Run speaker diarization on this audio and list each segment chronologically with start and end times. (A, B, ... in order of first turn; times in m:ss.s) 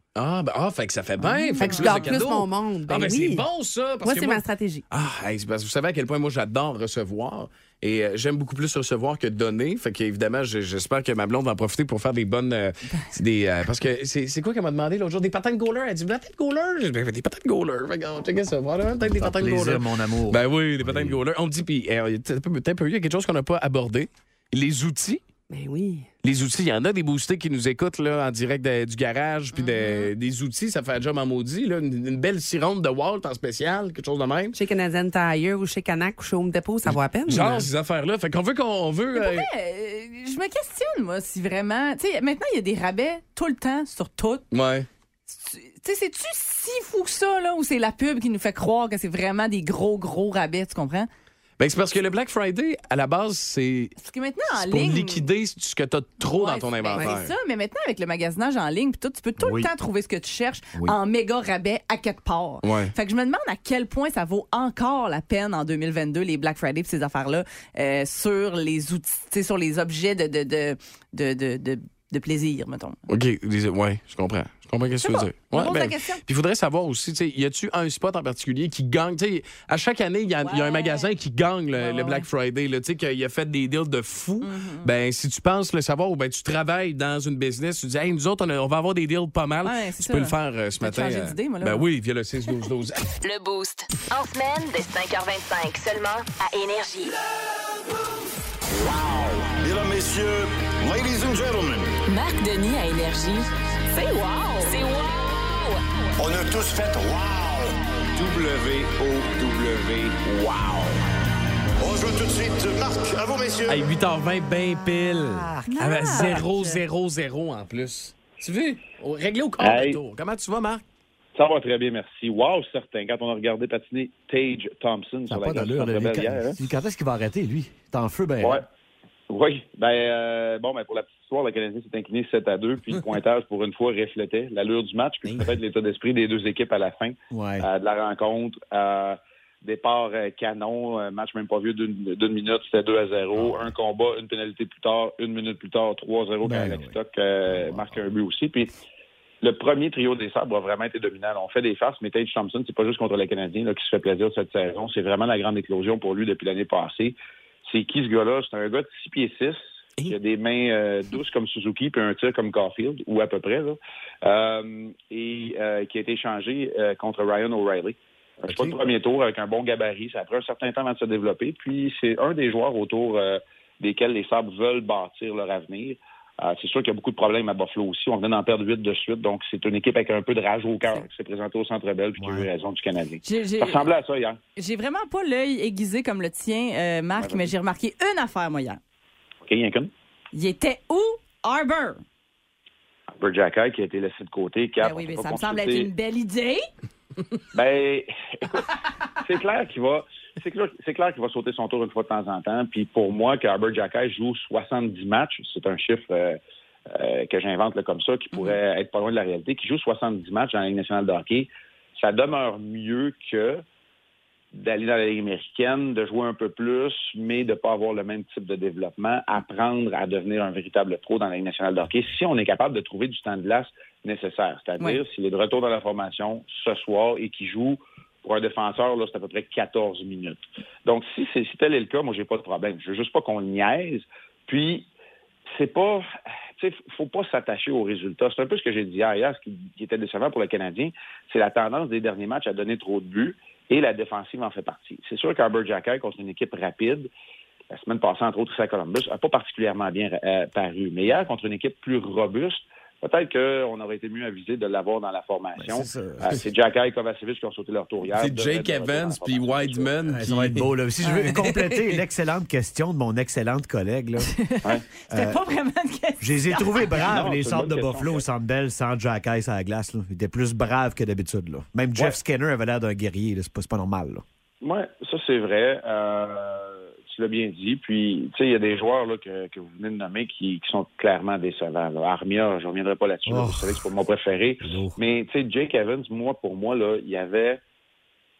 0:00.2-0:25.2 A
0:01.2-0:02.2 B
0:01.6-0:03.5 C
0:04.0-0:04.8 C
0:19.0-0:21.2 D
0:25.5-0:26.1 C
0:26.2-0:34.6 A
0:29.5-0:30.1 B
0:34.5-0:37.7 C
0:37.3-0:39.5 A
0:39.1-0:44.4 B
0:44.5-0:44.9 A
0:45.3-0:51.1 B
0:51.6-0:54.0 A
0:54.0-0:55.2 B
0:54.5-0:57.3 A
0:56.2-1:13.0 B
0:59.4-0:59.7 D
1:02.6-1:02.9 A
1:13.1-1:33.1 A
1:15.0-1:16.2 B
1:20.4-1:21.1 B
1:21.7-1:22.3 B
1:24.4-1:24.9 B
1:29.6-1:31.8 B
1:33.2-1:37.1 E
1:38.7-1:41.9 F
1:42.1-1:43.5 E
1:42.2-1:42.9 B
1:43.9-1:44.8 B
1:44.6-1:45.8 E
1:46.2-1:51.0 F
1:51.8-1:53.9 F
1:53.7-2:00.8 A
1:55.1-1:55.7 D
1:55.6-1:56.8 B
1:59.6-2:00.0 G
2:01.4-2:06.6 G
2:05.3-2:08.6 D
2:08.4-2:08.6 G
2:09.3-2:28.8 G
2:17.3-2:17.7 D
2:23.4-2:23.7 D
2:26.4-2:28.0 D
2:29.4-3:04.4 G
3:02.2-3:02.5 D
3:03.2-3:03.9 B
3:04.6-3:08.8 B
3:07.2-3:07.5 G
3:09.4-3:09.9 G
3:10.3-3:12.0 B
3:13.1-3:15.9 G
3:14.8-3:16.6 B
3:17.5-3:18.7 G
3:19.2-3:33.6 G
3:34.5-3:54.9 G
3:55.5-4:07.1 G
4:07.7-4:19.9 G
4:15.6-4:16.3 D
4:18.1-4:20.7 A
4:20.0-4:24.3 D
4:21.0-4:21.6 B
4:24.2-4:27.2 B
4:25.1-4:25.4 D
4:26.2-4:34.2 D
4:27.0-4:28.2 G
4:34.6-4:47.6 G
4:43.3-4:43.9 D
4:44.6-4:45.0 D